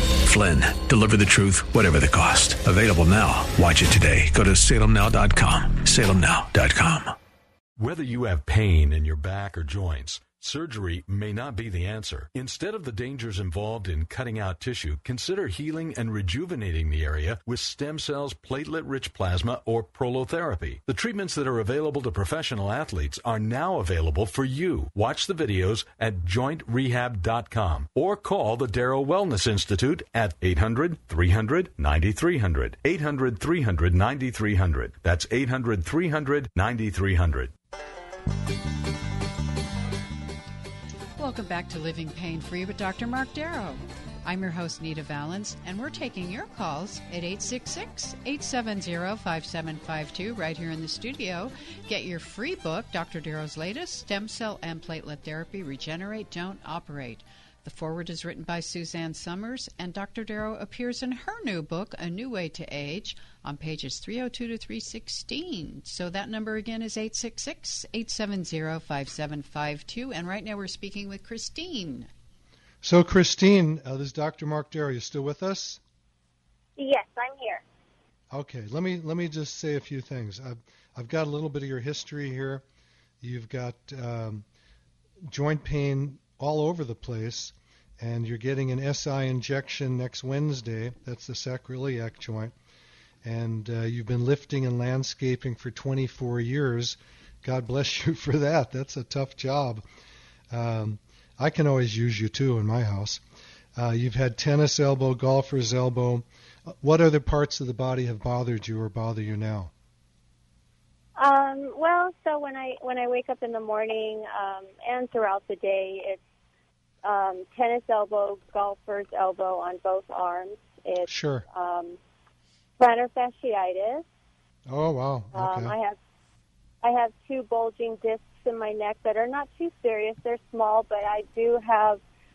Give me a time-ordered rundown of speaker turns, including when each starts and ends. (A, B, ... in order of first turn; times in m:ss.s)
0:00.2-0:07.1 A
0:07.8-0:37.5 B
0:41.2-1:12.1 C
1:12.8-1:15.8 D
1:16.8-1:17.6 E
1:18.3-1:22.6 D
1:23.2-1:24.4 D
1:25.2-1:32.5 D
1:33.2-1:39.8 D
1:40.5-1:43.2 D
1:43.8-1:49.7 D
1:51.2-1:56.2 E
1:57.0-2:02.0 E
2:01.1-2:01.4 D
2:02.8-2:04.0 E
2:04.7-2:05.8 D
2:05.3-2:06.0 E
2:06.8-2:12.0 E